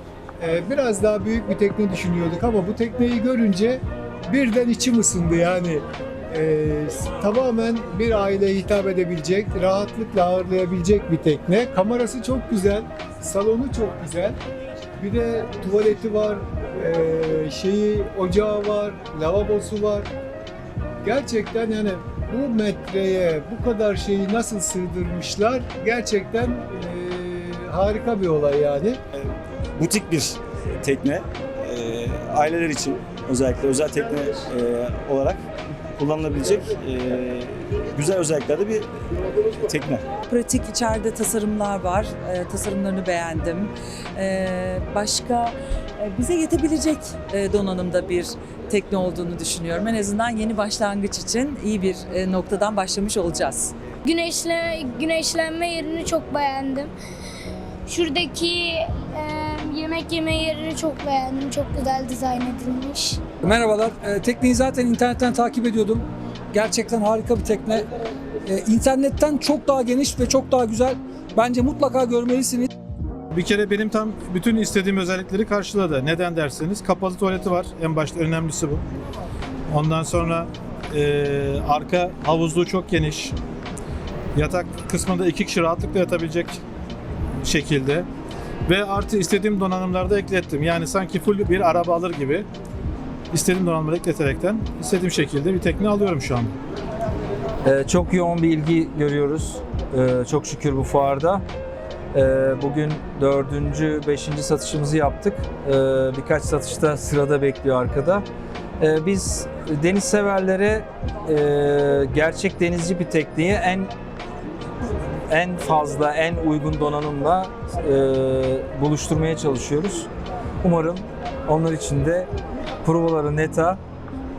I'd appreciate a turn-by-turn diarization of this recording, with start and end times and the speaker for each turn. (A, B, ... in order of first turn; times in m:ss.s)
0:00.4-0:14.4 A
0:15.0-0:20.1 A
0:21.0-0:29.0 A
0:29.1-0:38.9 B
0:39.6-0:40.0 B
0:40.3-0:53.7 C
0:54.0-0:56.9 D
0:57.9-1:03.2 D
1:03.5-1:07.9 E
1:08.5-1:12.7 E
1:13.3-1:18.8 F
1:19.7-1:23.4 F
1:24.4-1:26.6 F
1:27.4-1:28.1 F
1:28.7-1:32.5 F
1:33.3-1:36.5 F
1:37.6-1:41.4 G
1:42.1-1:48.2 G
1:48.8-1:53.9 G
1:55.3-2:00.1 G
2:00.6-2:02.3 G
2:02.8-2:03.8 G